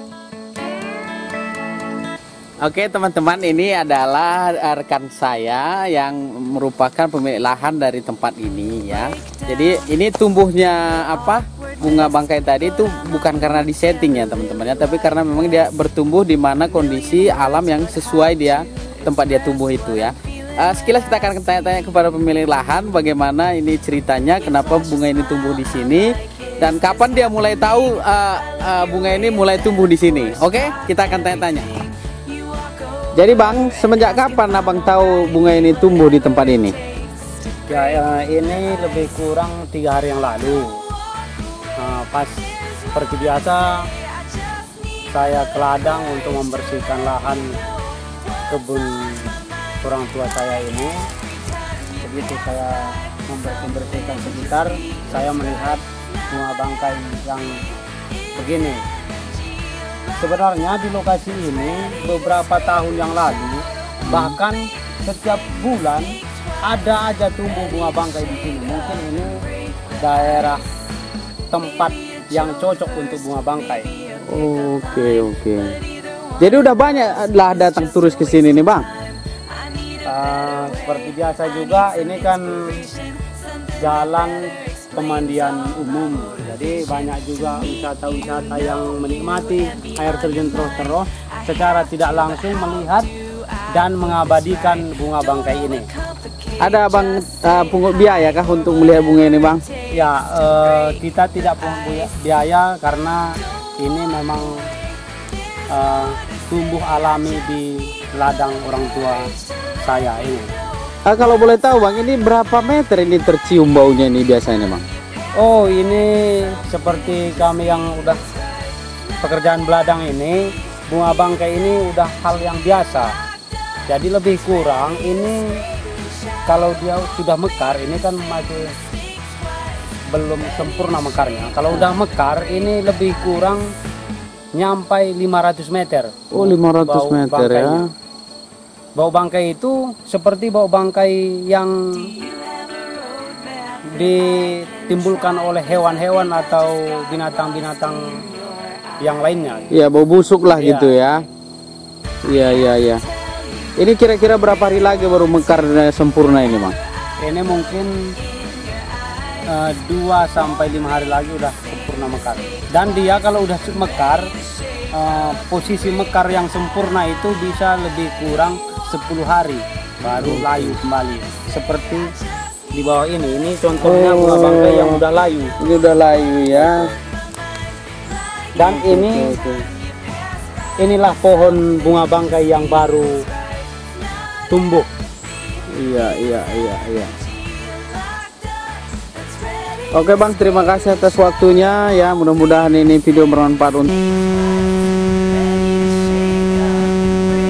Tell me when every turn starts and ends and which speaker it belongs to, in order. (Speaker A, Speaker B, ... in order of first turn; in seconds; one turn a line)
Speaker A: 2.6-26.1
Speaker A: 26.6-31.7
Speaker A: 33.1-36.7
Speaker B: 37.7-40.6
Speaker B: 41.8-42.4
Speaker B: 42.9-43.7
Speaker B: 45.1-47.5
Speaker B: 48.5-50.9
Speaker B: 52.0-57.5
Speaker B: 58.4-58.8
Speaker B: 60.2-66.1
Speaker A: 64.0-64.3
Speaker B: 66.7-69.3
Speaker B: 70.0-70.6
Speaker B: 71.5-73.9
Speaker A: 74.3-75.6
Speaker A: 76.4-78.8
Speaker B: 80.1-82.4
Speaker B: 83.8-84.3
Speaker B: 84.9-93.1
Speaker B: 93.7-95.9
Speaker A: 96.6-99.6
Speaker B: 100.0-103.2
Speaker B: 103.8-104.5
Speaker B: 105.7-109.2
Speaker B: 109.8-110.5
Speaker A: 111.0-114.8
Speaker B: 115.4-118.2
Speaker B: 119.2-123.1
Speaker B: 123.9-125.4
Speaker B: 126.5-128.7
Speaker B: 130.1-133.6
Speaker B: 134.5-137.8
Speaker A: 136.3-137.8
Speaker B: 138.9-142.1
Speaker B: 143.9-148.0
Speaker B: 149.0-149.7
Speaker A: 149.7-151.2
Speaker B: 150.5-151.0
Speaker A: 152.3-153.0
Speaker A: 153.8-156.7
Speaker B: 157.2-157.9
Speaker B: 159.5-164.3
Speaker B: 164.9-172.1
Speaker A: 170.0-170.8
Speaker B: 172.8-175.5
Speaker A: 173.8-175.0
Speaker A: 175.6-176.9
Speaker B: 176.5-176.9
Speaker B: 178.6-179.3
Speaker A: 178.6-179.6
Speaker B: 180.8-183.2
Speaker B: 184.5-184.9
Speaker A: 185.7-187.1
Speaker A: 189.9-194.0